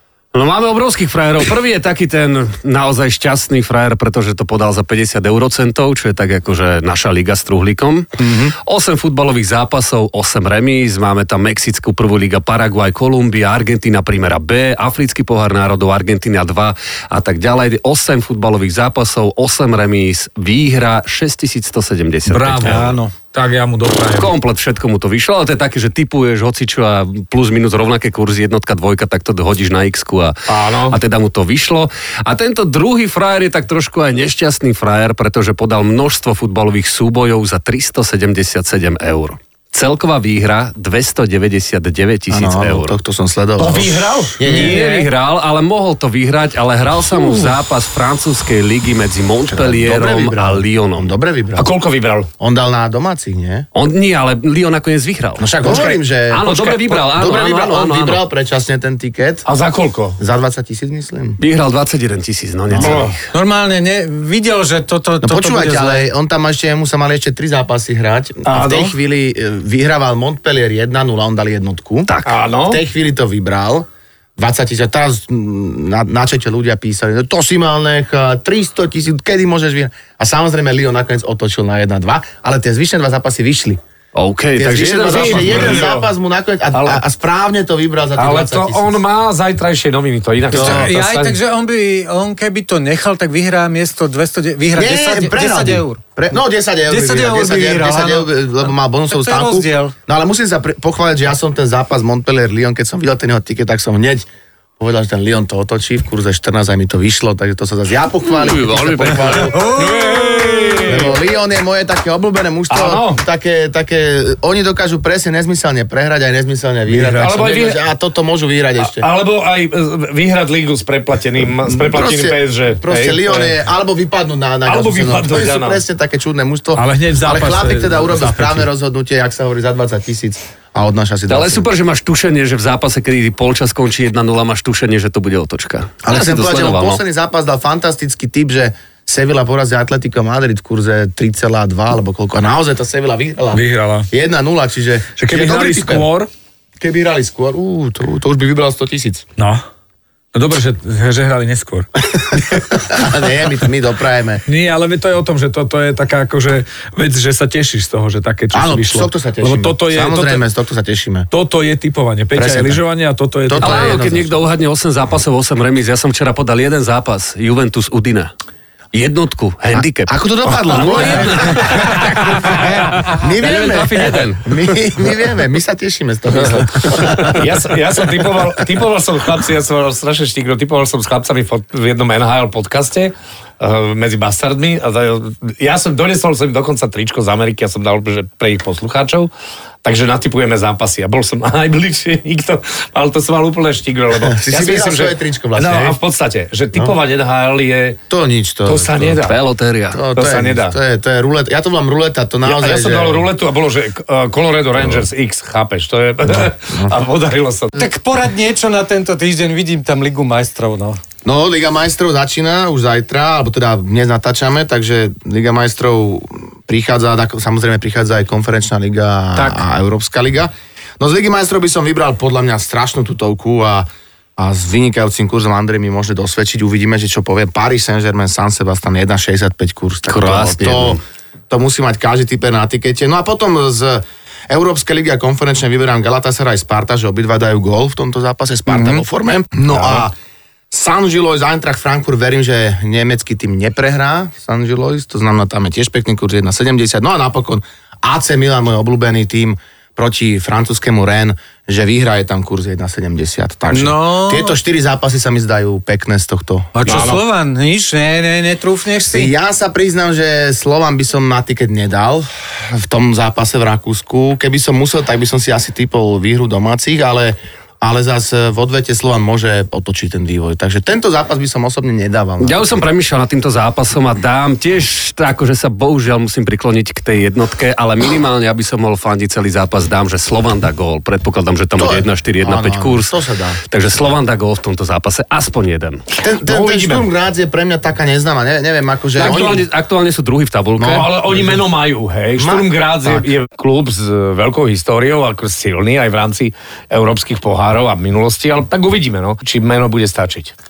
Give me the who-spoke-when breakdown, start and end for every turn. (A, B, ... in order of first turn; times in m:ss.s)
0:00.3-0:22.9 A
0:22.3-0:24.3 B
0:22.6-0:23.2 C
0:24.2-0:42.9 A
0:30.5-0:31.0 D
0:42.3-0:44.8 E
0:43.6-0:44.4 D
0:44.4-0:51.1 A
0:44.6-0:45.1 C
0:49.5-0:51.7 E
0:51.6-0:52.3 D
0:52.4-0:53.7 E
0:53.7-0:58.2 A
0:55.4-0:59.4 E
0:59.5-1:00.2 D
1:00.2-1:01.4 E
1:01.4-1:03.3 A
1:02.7-1:03.0 E
1:02.8-1:03.2 D
1:03.3-1:06.0 C
1:05.2-1:12.1 E
1:08.5-1:08.9 D
1:12.1-1:12.4 A
1:12.2-1:12.8 D
1:12.7-1:23.8 E
1:24.2-1:25.9 A
1:24.6-1:29.0 E
1:25.1-1:26.1 D
1:26.7-1:27.0 D
1:28.2-1:31.4 D
1:30.5-1:30.9 E
1:30.5-1:36.0 C
1:34.8-1:44.3 E
1:36.9-1:38.4 C
1:39.1-1:39.9 C
1:44.8-1:49.6 E
1:48.4-1:49.5 A
1:49.5-1:51.0 C
1:49.7-1:51.2 D
1:50.9-1:59.0 E
1:52.7-1:53.2 D
1:56.9-1:57.8 D
1:58.8-2:03.6 D
2:01.7-2:11.7 E
2:04.7-2:05.8 D
2:06.8-2:08.7 B
2:11.3-2:17.0 A
2:16.0-2:26.1 E
2:23.5-2:24.1 B
2:25.2-2:26.3 B
2:26.8-2:29.3 E
2:29.4-2:29.6 B
2:30.3-2:33.0 B
2:32.3-2:34.4 E
2:34.5-2:40.4 B
2:38.5-2:41.3 E
2:41.3-2:44.1 B
2:42.4-2:42.8 E
2:43.4-2:44.4 E
2:43.6-2:48.3 A
2:48.9-2:54.5 A
2:49.7-2:57.7 E
2:50.9-2:52.0 D
2:57.4-3:09.3 D
2:58.2-2:58.5 E
3:09.8-3:18.0 D
3:14.1-3:16.0 E
3:18.1-3:19.2 E
3:18.6-3:19.4 D
3:19.2-3:20.0 A
3:19.9-3:23.3 E
3:20.2-3:20.8 D
3:22.4-3:27.9 D
3:26.3-3:27.0 E
3:27.8-3:31.0 C
3:31.2-4:00.2 E
3:39.4-3:39.6 C
3:50.1-3:51.0 A
3:58.7-3:59.0 C
4:00.7-4:16.7 E
4:13.7-4:14.6 C
4:16.8-4:19.3 C
4:16.8-4:17.2 D
4:19.1-4:32.7 E
4:32.4-4:43.1 A
4:41.8-4:43.6 E
4:43.7-4:46.0 A
4:46.2-4:49.7 E
4:46.4-4:47.1 D
4:49.2-4:51.1 A
4:50.8-4:51.6 E
4:50.9-5:00.5 D
4:52.4-4:53.3 E